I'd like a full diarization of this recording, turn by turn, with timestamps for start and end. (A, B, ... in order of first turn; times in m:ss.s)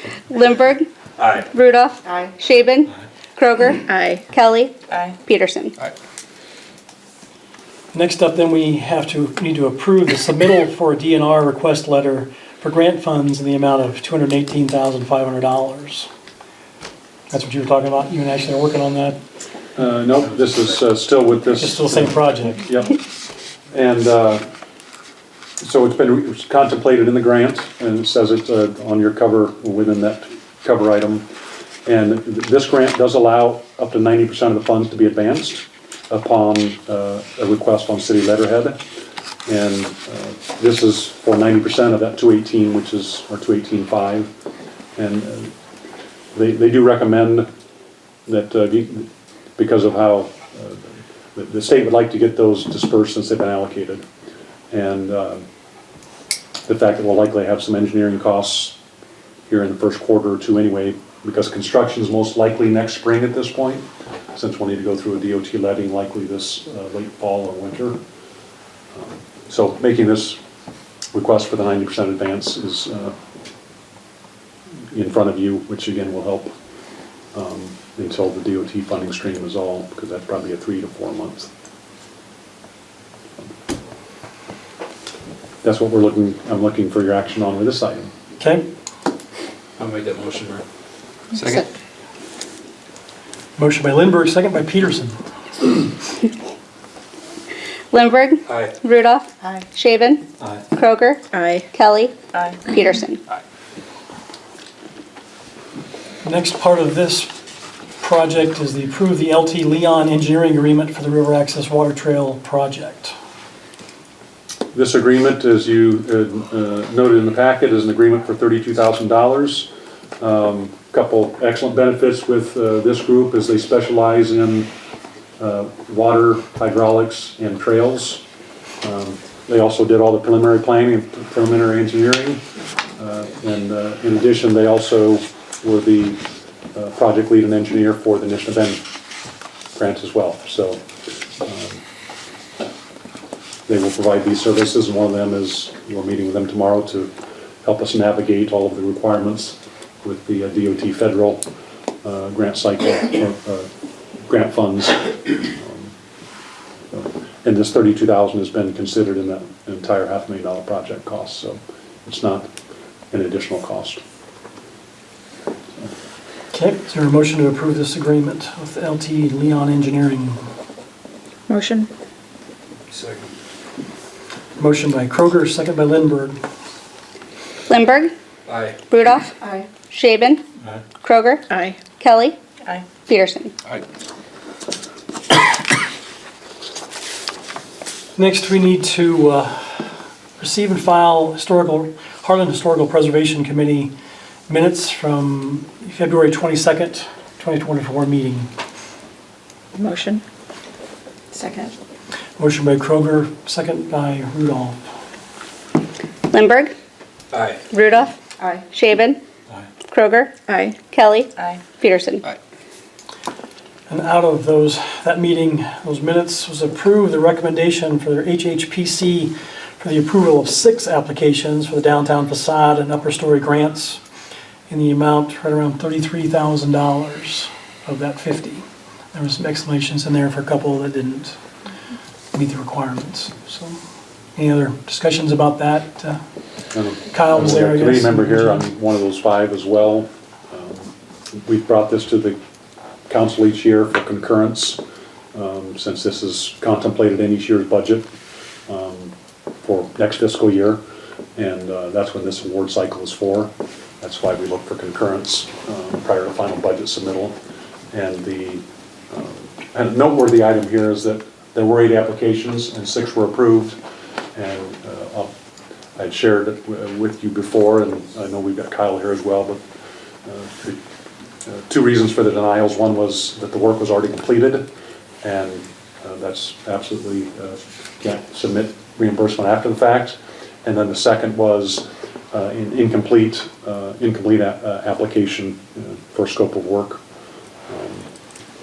0:00.3-0:00.9 A
0:01.2-0:01.5 B
0:01.5-0:05.8 A
0:03.8-0:04.2 C
0:07.9-0:16.1 D
0:17.3-0:19.2 D
0:19.8-0:23.0 E
0:21.6-0:22.6 D
0:23.7-0:24.4 E
0:25.6-0:31.3 E
0:31.9-0:38.8 E
0:39.5-0:44.3 E
0:45.0-0:45.5 E
0:46.3-0:47.5 E
0:48.3-0:54.0 E
0:54.7-0:55.4 E
0:56.7-0:58.8 E
0:59.5-1:08.0 E
1:09.0-1:10.4 E
1:11.1-1:13.2 E
1:14.9-1:16.5 E
1:17.3-1:21.5 E
1:25.6-1:28.1 E
1:28.4-1:28.7 D
1:29.8-1:30.6 B
1:31.3-1:31.7 B
1:33.6-1:35.2 D
1:37.9-1:43.2 A
1:38.5-1:38.8 B
1:41.3-1:41.7 C
1:46.2-1:47.3 D
1:48.0-1:53.1 D
1:54.7-2:04.7 E
2:05.4-2:08.2 E
2:08.8-2:12.4 E
2:13.0-2:16.2 E
2:16.7-2:18.8 E
2:19.8-2:20.8 E
2:21.4-2:21.8 E
2:23.7-2:27.1 E
2:27.6-2:31.4 E
2:32.0-2:33.7 E
2:34.2-2:35.9 E
2:36.9-2:42.5 E
2:43.1-2:44.0 E
2:46.5-2:50.5 D
2:51.5-2:51.9 C
2:52.9-2:53.3 B
2:54.6-2:56.4 D
2:57.7-2:58.1 A
2:58.5-2:58.8 B
2:58.9-2:59.4 A
2:59.4-2:59.7 C
2:59.9-3:00.4 A
3:01.0-3:01.4 A
3:01.5-3:01.8 C
3:02.0-3:02.4 A
3:03.1-3:03.5 A
3:08.2-3:13.9 D
3:14.5-3:18.5 D
3:19.8-3:20.2 C
3:21.3-3:21.7 C
3:22.4-3:24.8 D
3:26.3-3:26.8 A
3:27.3-3:27.7 B
3:27.7-3:28.2 A
3:28.7-3:29.2 A
3:29.9-3:30.3 A
3:30.5-3:30.8 C
3:30.9-3:32.3 A
3:33.9-3:44.0 D
3:44.7-3:51.4 D
3:52.3-3:53.8 D
3:54.4-3:56.2 D
3:56.7-4:02.4 E
3:57.1-3:58.7 D
4:03.1-4:04.8 E
4:05.3-4:08.1 E
4:08.7-4:10.8 E
4:11.4-4:17.4 E
4:17.9-4:23.8 E
4:24.4-4:25.3 E
4:26.0-4:29.6 E
4:30.3-4:30.8 E
4:31.5-4:34.7 E
4:35.2-4:47.0 E
4:47.7-4:48.1 E